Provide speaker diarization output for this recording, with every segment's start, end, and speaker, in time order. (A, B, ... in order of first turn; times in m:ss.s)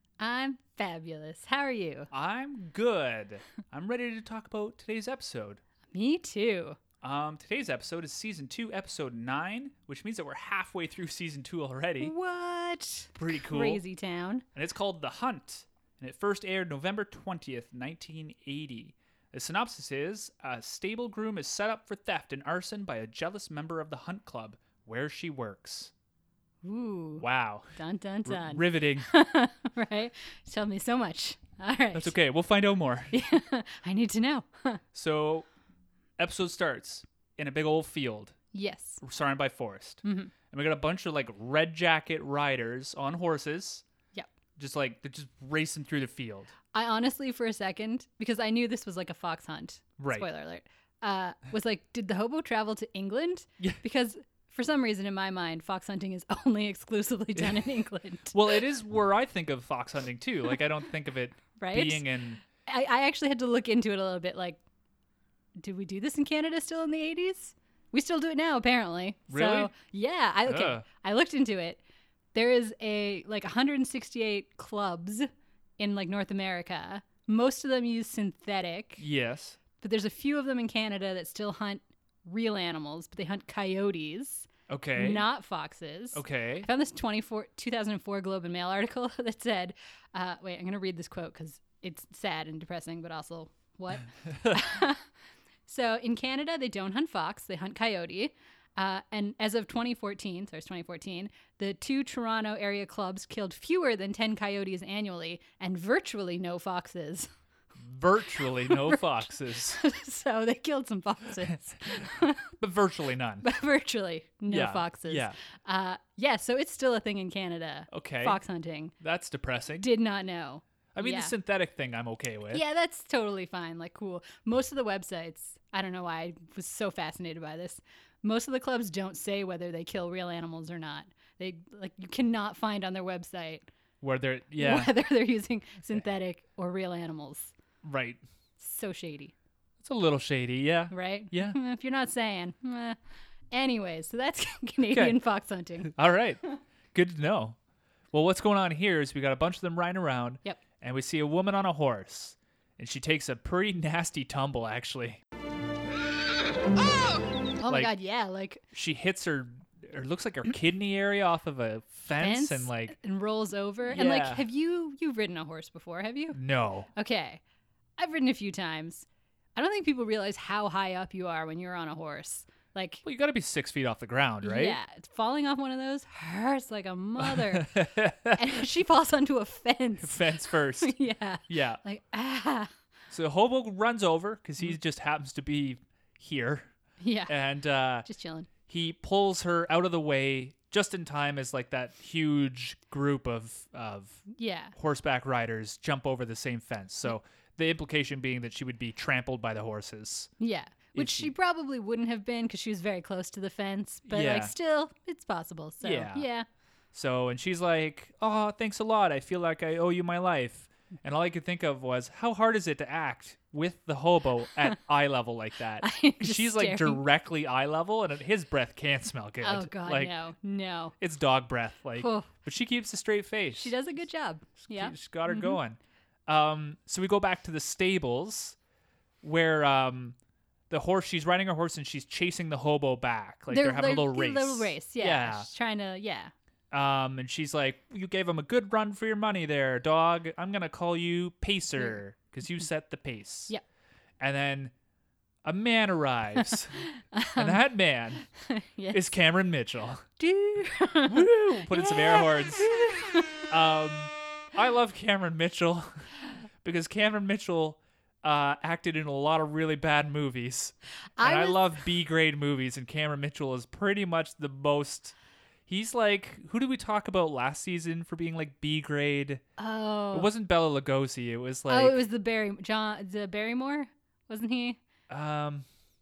0:00.2-0:02.1 A
0:02.1-0:05.6 B
0:05.9-0:06.8 A
0:07.0-0:12.1 B
0:12.0-0:14.4 A
0:13.2-0:13.8 B
0:14.5-0:25.9 B
0:26.6-0:27.2 A
0:27.2-0:29.1 B
0:27.7-0:32.1 A
0:31.9-0:33.2 B
0:33.1-0:34.8 A
0:34.9-0:35.5 B
0:36.2-0:38.4 B
0:38.5-0:39.0 A
0:39.0-0:43.8 B
0:40.0-0:40.3 A
0:44.6-0:46.5 B
0:46.7-0:58.4 A
0:50.0-0:50.2 B
0:58.3-1:02.4 B
1:01.6-1:04.6 A
1:05.6-1:11.8 A
1:09.3-1:09.7 B
1:10.5-1:10.8 B
1:12.3-1:19.0 A
1:19.0-1:19.6 B
1:19.8-1:35.0 A
1:24.7-1:25.2 B
1:26.1-1:26.7 B
1:34.3-1:34.6 B
1:35.6-1:47.3 A
1:47.8-1:49.8 B
1:48.6-1:52.5 A
1:52.6-1:53.4 B
1:53.4-1:58.9 A
1:54.5-1:55.4 B
1:57.9-1:58.4 B
1:59.0-1:59.8 B
1:59.8-2:01.3 A
2:00.9-2:02.6 B
2:02.5-2:13.6 A
2:14.0-2:14.9 B
2:14.6-2:17.5 A
2:17.8-2:18.2 B
2:18.6-2:19.3 A
2:19.8-2:21.6 B
2:20.9-2:23.0 A
2:23.5-2:25.9 A
2:24.9-2:25.2 B
2:25.8-2:26.4 B
2:26.9-2:27.6 B
2:28.1-2:35.2 B
2:37.6-2:38.6 A
2:38.7-2:42.9 B
2:42.2-2:46.4 A
2:43.9-2:44.4 B
2:46.3-2:46.9 B
2:47.0-2:47.4 A
2:48.0-2:53.0 A
2:53.0-2:54.8 B
2:54.4-2:57.8 A
2:57.2-2:58.4 B
2:58.3-3:00.3 A
3:00.0-3:01.0 B
3:00.8-3:02.7 A
3:01.5-3:01.8 B
3:03.1-3:06.7 B
3:07.0-3:07.3 A
3:07.3-3:08.1 B
3:08.0-3:08.5 A
3:08.7-3:20.3 B
3:14.3-3:14.7 A
3:20.4-3:26.4 A
3:20.9-3:21.3 B
3:24.1-3:24.5 B
3:25.8-3:26.2 B
3:26.9-3:40.1 B
3:35.8-3:37.0 A
3:39.4-3:40.9 A
3:41.0-3:43.7 B
3:42.0-3:42.3 A
3:43.5-3:45.6 A
3:44.6-3:48.6 B
3:49.2-3:50.2 B
3:50.7-3:55.5 B
3:53.5-3:56.3 A
3:56.7-4:03.5 B
4:04.2-4:04.7 B
4:05.4-4:06.8 B
4:06.4-4:07.6 A
4:07.4-4:08.2 B
4:08.3-4:09.0 A
4:08.9-4:10.0 B
4:10.2-4:13.2 A
4:11.0-4:12.8 B
4:13.5-4:16.0 B
4:16.6-4:25.1 B
4:21.2-4:21.6 A
4:25.7-4:29.4 B
4:29.6-4:30.3 A
4:30.1-4:32.0 B
4:31.7-4:34.8 A
4:35.1-4:35.6 B